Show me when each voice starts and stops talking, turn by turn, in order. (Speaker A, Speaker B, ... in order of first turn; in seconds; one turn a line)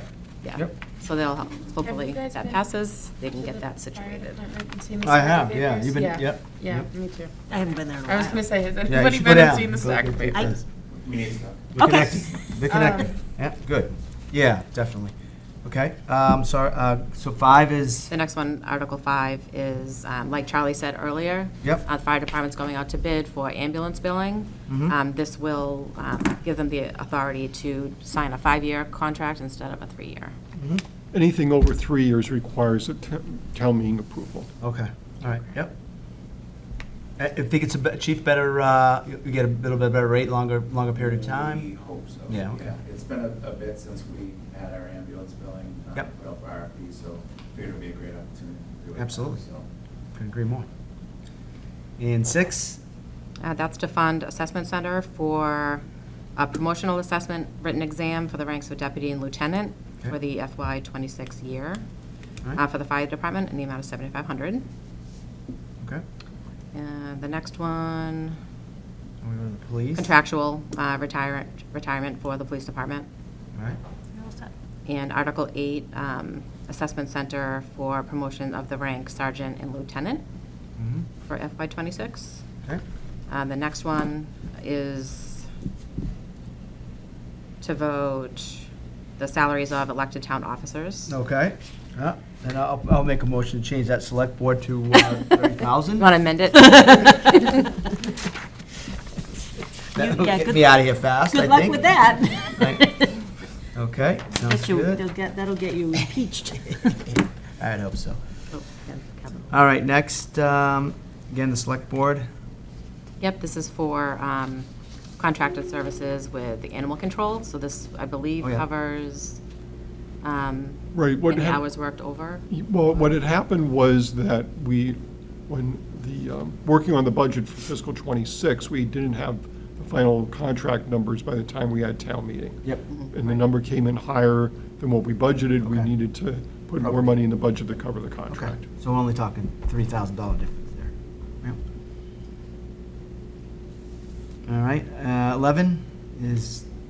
Speaker A: 0.4-4.5
Speaker B: 1.8-2.6
Speaker B: 3.4-7.3
Speaker C: 5.0-6.9
Speaker D: 7.5-8.5
Speaker B: 8.1-10.4
Speaker C: 8.8-10.6
Speaker E: 11.0-11.5
Speaker C: 11.7-18.1
Speaker D: 11.8-12.1
Speaker B: 12.7-13.0
Speaker A: 18.1-30.3
Speaker C: 24.7-24.9
Speaker C: 30.5-30.8
Speaker F: 31.1-34.5
Speaker C: 34.6-35.7
Speaker C: 37.2-41.7
Speaker E: 41.7-42.1
Speaker C: 42.3-42.8
Speaker E: 42.7-48.7
Speaker C: 48.9-49.4
Speaker C: 50.1-50.6
Speaker C: 52.0-52.8
Speaker A: 53.4-55.8
Speaker A: 56.4-61.8
Speaker A: 62.5-64.6
Speaker A: 66.7-68.4
Speaker C: 69.2-70.1
Speaker A: 69.9-73.1
Speaker D: 74.1-74.5
Speaker A: 74.8-80.2
Speaker C: 80.8-81.1
Speaker A: 81.2-82.4
Speaker A: 83.3-85.5
Speaker A: 87.6-88.7
Speaker A: 89.2-91.1
Speaker C: 91.0-96.1
Speaker A: 96.0-97.8
Speaker C: 99.9-103.0
Speaker D: 99.9-103.2
Speaker C: 103.7-105.0
Speaker D: 104.4-107.1
Speaker C: 107.6-108.2
Speaker A: 108.5-109.5
Speaker C: 109.5-112.2
Speaker A: 113.2-114.7
Speaker A: 115.2-119.4
Speaker A: 120.2-122.5
Speaker F: 120.9-121.6
Speaker F: 122.5-138.7
Speaker A: 132.9-133.4
Speaker C: 135.6-135.9
Speaker C: 136.8-137.2
Speaker C: 138.3-141.6
Speaker C: 144.5-146.7